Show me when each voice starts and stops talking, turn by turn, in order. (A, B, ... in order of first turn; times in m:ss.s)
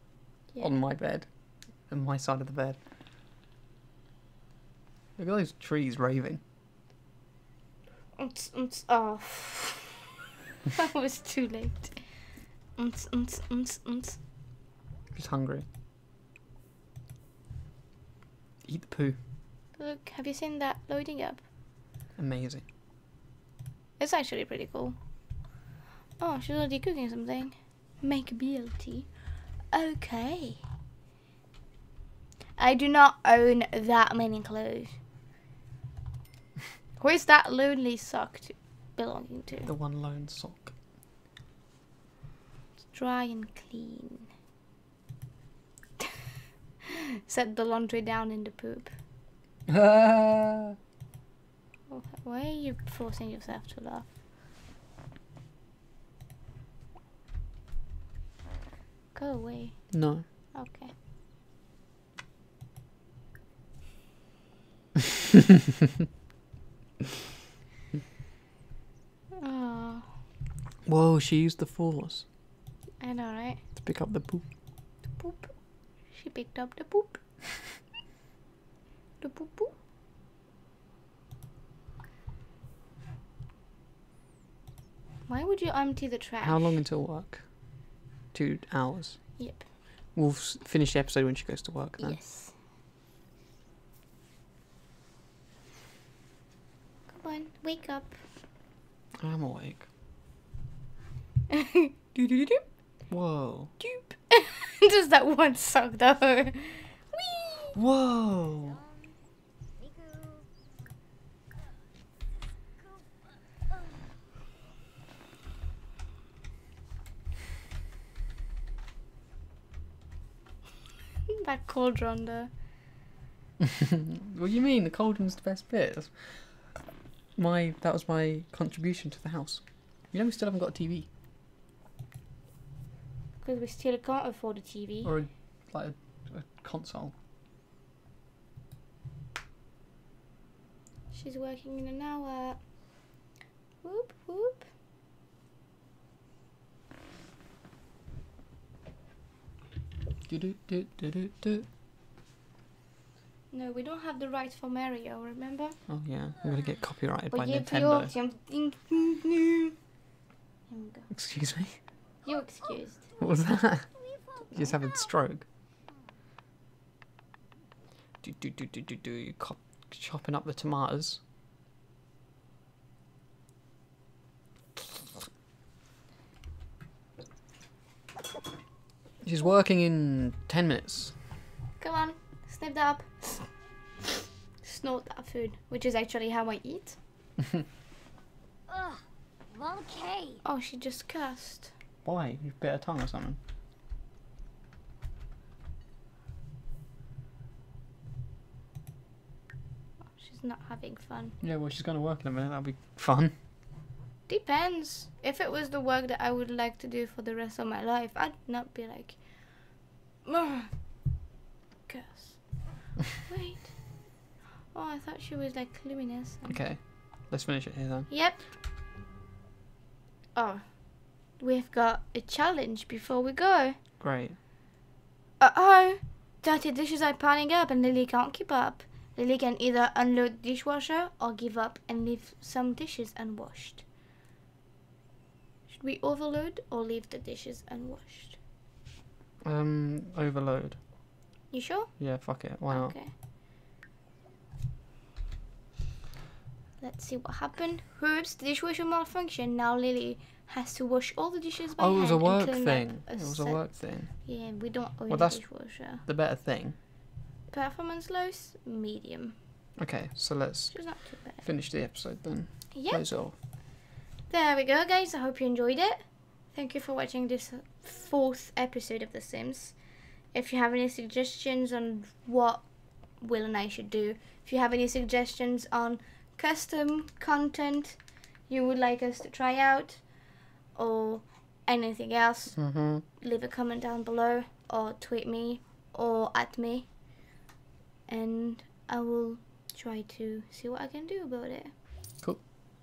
0:00.6-0:01.3 A
0:01.9-0:02.8 A
0:05.2-0:06.4 A
0:08.2-0:10.2 B
0:10.7-0:12.1 B
0:12.8-0:14.2 B
0:15.1-0:15.6 A
0:18.6-0:19.2 A
0:19.8-0:21.4 B
0:22.2-0:22.6 A
0:24.0-0:25.0 B
0:26.2-0:29.1 B
0:29.7-0:30.6 B
0:32.6-0:35.0 B
0:37.0-0:39.7 B
0:39.6-0:40.7 A
0:42.9-0:44.3 B
0:47.2-0:48.9 B
0:49.7-0:50.7 A
0:51.9-0:54.1 B
0:59.1-1:00.9 B
0:59.9-1:00.2 A
1:09.4-1:10.2 B
1:10.8-1:12.2 A
1:13.0-1:13.6 B
1:13.8-1:14.4 A
1:15.0-1:17.2 B
1:19.2-1:19.7 B
1:25.3-1:26.8 B
1:26.4-1:29.6 A
1:29.4-1:29.7 B
1:30.1-1:32.2 A
1:32.0-1:32.6 B
1:37.1-1:38.2 B
1:39.2-1:39.9 A
1:41.5-1:42.6 B
1:43.1-1:43.7 A
1:43.8-1:47.7 B
1:47.7-1:48.8 A
1:49.8-1:50.4 C
2:01.3-2:02.5 B
2:04.1-2:06.8 A
2:07.4-2:11.1 A
2:13.4-2:15.1 B
2:15.0-2:17.1 A
2:21.1-2:22.6 B
2:23.8-2:24.7 B
2:30.3-2:31.6 A
2:33.5-2:35.8 B
2:35.9-2:38.1 A
2:37.3-2:39.8 B
2:40.7-2:41.1 B
2:41.1-2:41.8 A
2:42.2-2:43.0 B
2:43.2-2:45.4 A
2:48.2-2:51.2 A
2:59.2-3:01.2 A
3:01.8-3:03.5 B
3:04.6-3:07.0 B
3:08.7-3:10.4 C
3:10.4-3:11.7 B
3:12.0-3:13.4 A
3:20.1-3:21.4 B
3:21.4-3:23.3 A
3:24.3-3:30.7 B
3:31.9-3:33.9 B
3:34.7-3:36.6 B
3:36.5-3:38.1 A
3:38.1-3:38.4 B
3:40.3-3:43.8 B
3:44.0-3:44.4 A
3:45.4-3:53.8 B
3:55.7-3:58.4 B
3:59.4-4:00.8 A
4:01.5-4:03.1 B
4:02.0-4:03.0 A
4:06.8-4:16.0 B
4:11.7-4:14.3 A
4:15.1-4:16.8 A
4:17.5-4:19.4 B
4:19.8-4:23.3 A
4:20.7-4:21.4 B
4:22.7-4:23.1 B
4:24.3-4:46.9 B
4:42.6-4:43.0 A
4:48.1-4:51.7 B